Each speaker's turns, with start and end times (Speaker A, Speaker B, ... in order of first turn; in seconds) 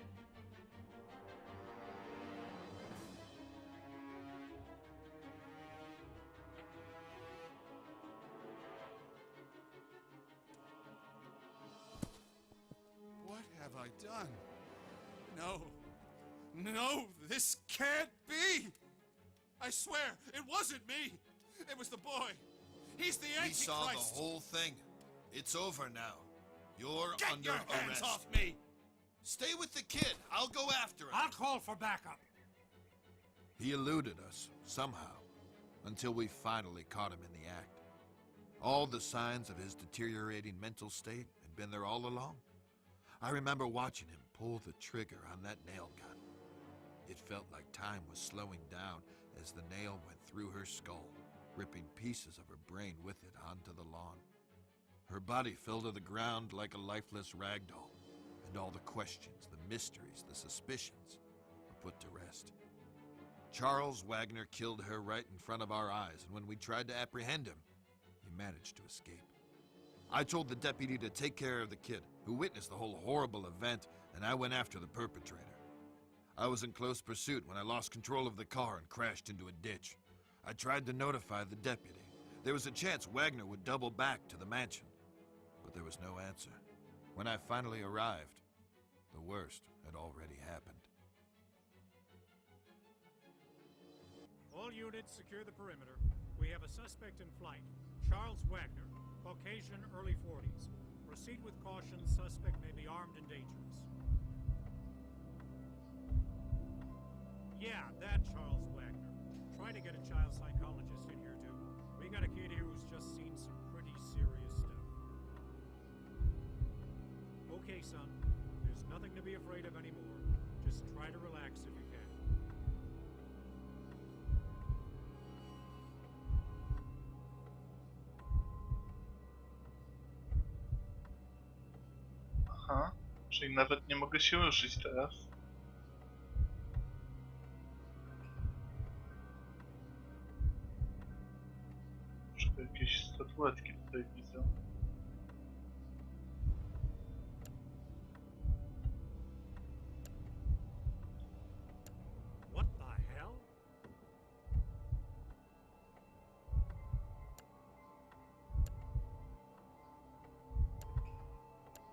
Speaker A: 13.2-14.4, 15.2-15.8, 16.5-18.8, 19.6-22.4, 22.9-24.2, 27.2-28.6
Speaker B: 23.4-28.3, 29.2-31.3, 33.6-35.3, 35.8-37.8, 38.6-42.4, 43.2-46.2, 47.0-54.2, 55.0-62.5, 63.5-67.7, 68.2-69.3, 70.1-75.6, 76.4-84.9, 85.6-86.6, 87.1-88.4, 89.1-90.9
Speaker C: 31.1-32.2, 94.5-103.9, 107.5-114.9, 117.5-122.2, 152.5-153.5
Speaker D: 132.5-135.3, 142.3-144.5